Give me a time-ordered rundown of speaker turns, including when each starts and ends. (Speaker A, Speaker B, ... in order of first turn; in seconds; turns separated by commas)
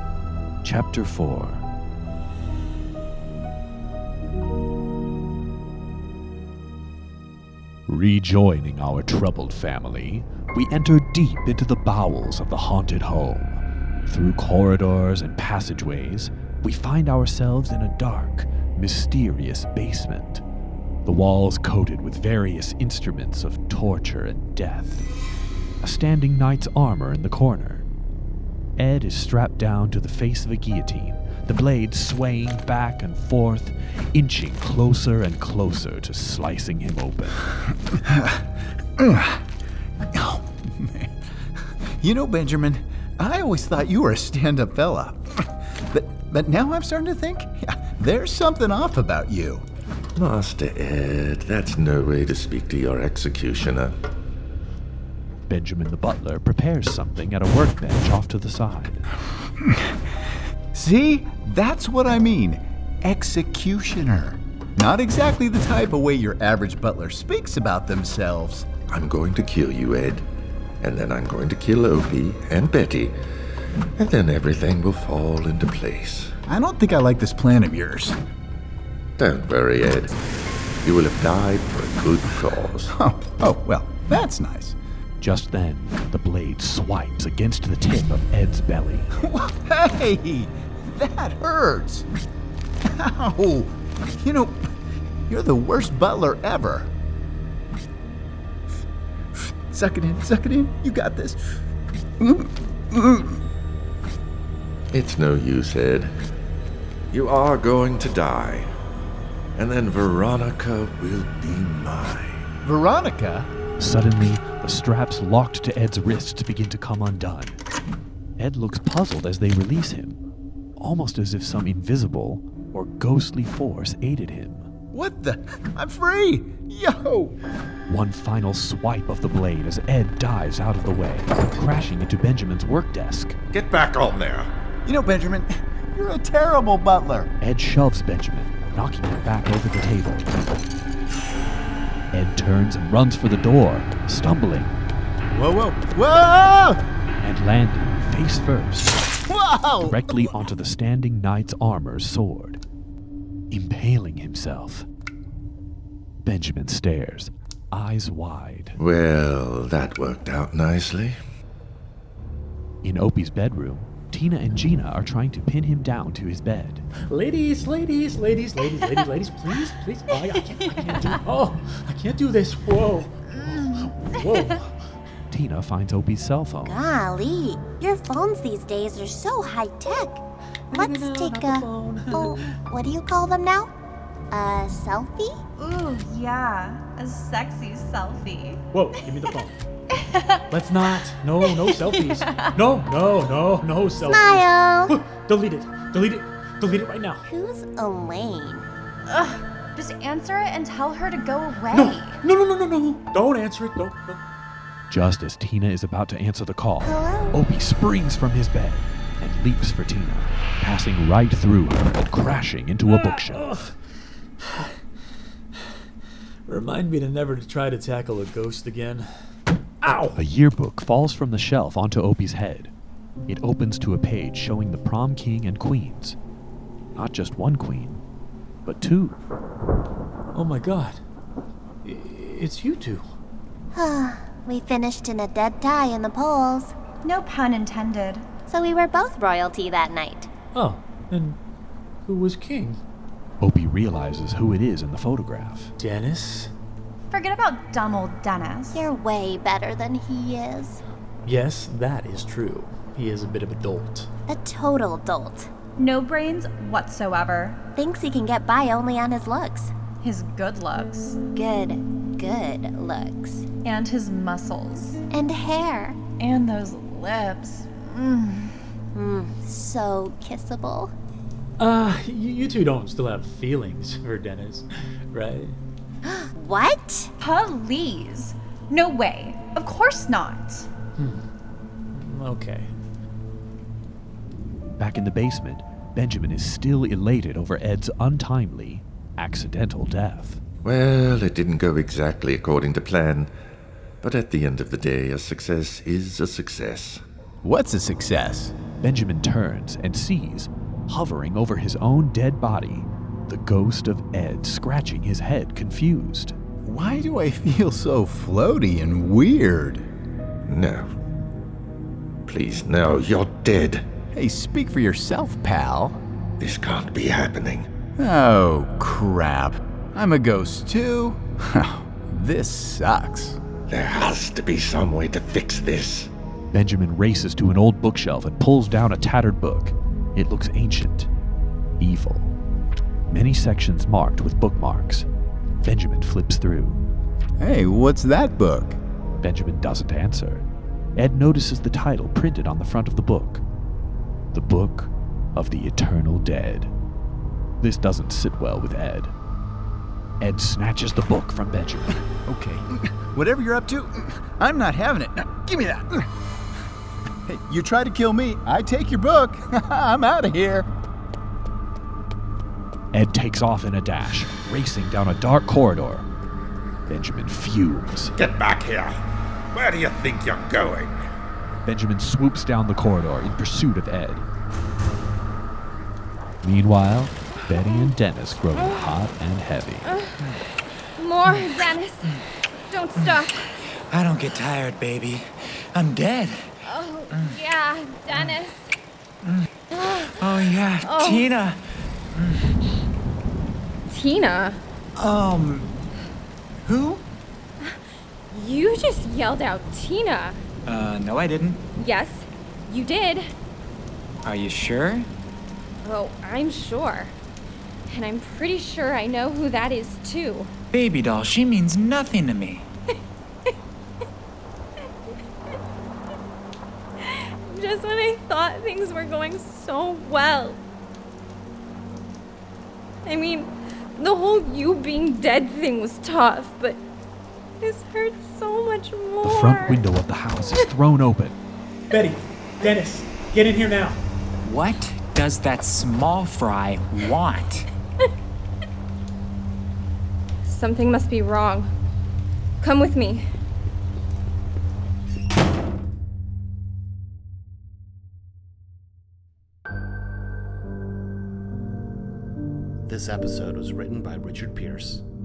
Speaker A: 0.6-1.6, Speaker A: 7.9-20.4, Speaker A: 21.1-25.1, Speaker A: 25.8-27.9, Speaker A: 28.8-37.5, Speaker B: 38.0-38.4, Speaker B: 39.0-39.4, Speaker B: 40.1-41.1, Speaker B: 42.0-49.7, Speaker C: 50.2-53.9, Speaker A: 55.5-59.0, Speaker B: 59.6-59.9, Speaker B: 60.7-68.7, Speaker C: 68.9-70.2, Speaker C: 70.8-73.1, Speaker C: 74.0-76.3, Speaker B: 76.5-78.2, Speaker C: 79.2-80.2, Speaker C: 80.8-82.9, Speaker B: 82.9-84.8, Speaker A: 85.2-89.1, Speaker B: 89.2-92.1, Speaker B: 92.9-94.7, Speaker B: 95.3-96.9, Speaker B: 99.3-101.4, Speaker B: 102.2-103.4, Speaker C: 104.9-106.1, Speaker C: 107.1-108.7, Speaker C: 109.6-112.4, Speaker B: 112.7-113.5, Speaker A: 113.8-117.6, Speaker A: 118.4-120.2, Speaker A: 120.8-124.7, Speaker B: 124.9-127.4, Speaker A: 127.9-133.4, Speaker C: 133.5-134.5, Speaker B: 134.9-137.3, Speaker A: 137.4-140.3, Speaker A: 142.1-144.8, Speaker B: 145.3-146.8, Speaker A: 147.2-149.0, Speaker B: 149.3-150.3, Speaker A: 149.8-152.6, Speaker A: 153.5-154.9, Speaker A: 156.2-158.8, Speaker C: 158.8-161.2, Speaker A: 162.8-166.8, Speaker D: 167.1-174.7, Speaker E: 170.1-171.2, Speaker A: 175.3-176.8, Speaker F: 176.6-180.2, Speaker D: 180.7-182.5, Speaker F: 180.7-183.7, Speaker F: 184.3-185.4, Speaker E: 185.6-188.6, Speaker D: 188.7-189.6, Speaker E: 190.0-192.6, Speaker D: 190.5-197.2, Speaker F: 194.0-194.9, Speaker F: 197.3-198.7, Speaker E: 199.1-202.2, Speaker D: 201.7-204.2, Speaker A: 204.9-213.5, Speaker F: 206.8-207.4, Speaker D: 212.9-213.7, Speaker D: 214.4-214.8, Speaker D: 216.5-219.1, Speaker D: 219.8-220.2, Speaker A: 220.1-222.7, Speaker A: 223.3-226.2, Speaker A: 227.0-228.0, Speaker A: 228.7-229.2, Speaker D: 230.3-231.0, Speaker D: 231.8-233.1, Speaker F: 233.7-236.7, Speaker E: 237.0-238.3, Speaker F: 238.5-240.3, Speaker D: 240.5-241.4, Speaker D: 242.1-242.8, Speaker A: 243.4-245.7, Speaker D: 245.8-246.5, Speaker E: 247.1-248.9, Speaker F: 248.7-250.8, Speaker D: 251.2-254.1, Speaker F: 254.3-255.5, Speaker E: 255.8-257.6, Speaker F: 257.8-259.7, Speaker E: 260.0-261.2, Speaker F: 261.3-263.5, Speaker E: 263.6-265.0, Speaker F: 265.1-266.0, Speaker E: 266.2-268.6, Speaker F: 268.9-270.9, Speaker D: 271.6-275.6, Speaker F: 276.1-277.1, Speaker E: 277.2-280.7, Speaker D: 281.0-281.2, Speaker D: 281.9-282.7, Speaker A: 284.8-290.4, Speaker C: 290.6-293.3, Speaker C: 294.0-297.0, Speaker B: 297.4-298.6, Speaker A: 298.8-306.4, Speaker B: 306.7-309.9, Speaker C: 310.5-310.9, Speaker C: 312.3-313.9, Speaker B: 314.1-316.0, Speaker C: 316.4-317.7, Speaker B: 318.0-323.4, Speaker C: 323.7-326.1, Speaker A: 326.5-331.1, Speaker A: 331.8-332.4, Speaker A: 333.1-335.1, Speaker A: 335.6-336.8, Speaker B: 337.4-338.8, Speaker A: 339.2-340.4, Speaker A: 341.0-343.4, Speaker A: 344.3-346.7, Speaker A: 347.6-349.1, Speaker A: 350.2-352.0, Speaker B: 352.2-356.1, Speaker B: 357.3-360.7, Speaker A: 362.9-366.1, Speaker A: 366.9-368.1, Speaker C: 368.2-369.0, Speaker C: 369.5-370.9, Speaker A: 371.6-374.3, Speaker A: 376.4-379.9, Speaker G: 378.6-378.9, Speaker G: 379.9-380.1, Speaker G: 381.0-382.2, Speaker G: 382.7-383.5, Speaker H: 383.9-386.6, Speaker G: 386.6-388.7, Speaker H: 387.1-387.4, Speaker H: 389.2-392.6, Speaker G: 389.7-390.0, Speaker G: 390.8-391.3, Speaker G: 393.9-394.6, Speaker H: 395.0-395.7, Speaker H: 396.6-397.0, Speaker G: 398.3-400.4, Speaker H: 400.7-401.7, Speaker G: 401.8-403.3, Speaker H: 404.2-405.1, Speaker G: 405.8-407.1, Speaker G: 407.9-410.5, Speaker H: 410.7-412.7, Speaker G: 417.1-420.6, Speaker G: 423.1-426.8, Speaker G: 427.6-429.8, Speaker A: 429.2-431.4, Speaker D: 431.9-434.0, Speaker H: 434.4-437.7, Speaker G: 440.5-441.7, Speaker G: 442.6-443.2, Speaker I: 452.9-455.0